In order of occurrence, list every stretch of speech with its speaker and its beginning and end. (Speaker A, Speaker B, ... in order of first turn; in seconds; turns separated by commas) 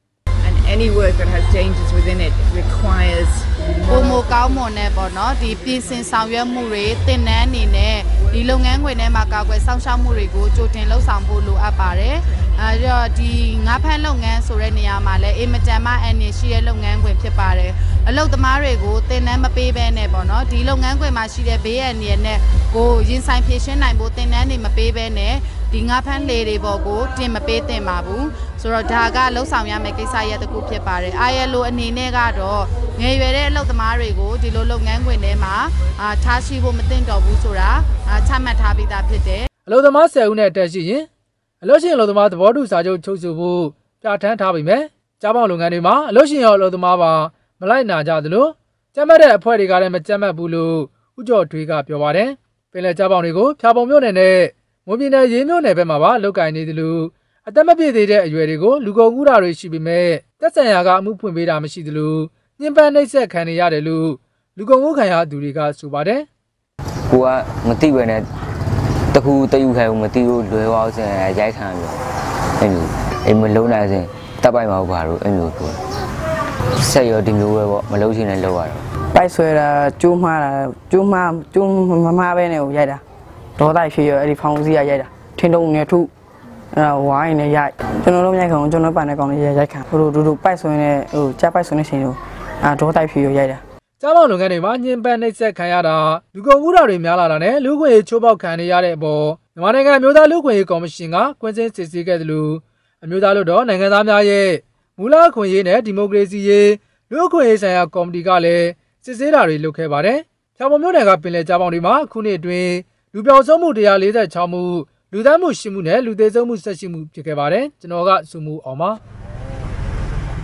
Speaker A: 0.4-4.3, Speaker B: 3.9-39.5, Speaker C: 39.7-41.1, Speaker C: 41.6-66.3, Speaker D: 67.1-68.3, Speaker D: 69.1-72.0, Speaker D: 72.6-75.8, Speaker D: 76.8-78.8, Speaker E: 79.1-83.0, Speaker E: 83.6-86.1, Speaker E: 86.7-93.6, Speaker C: 94.0-119.0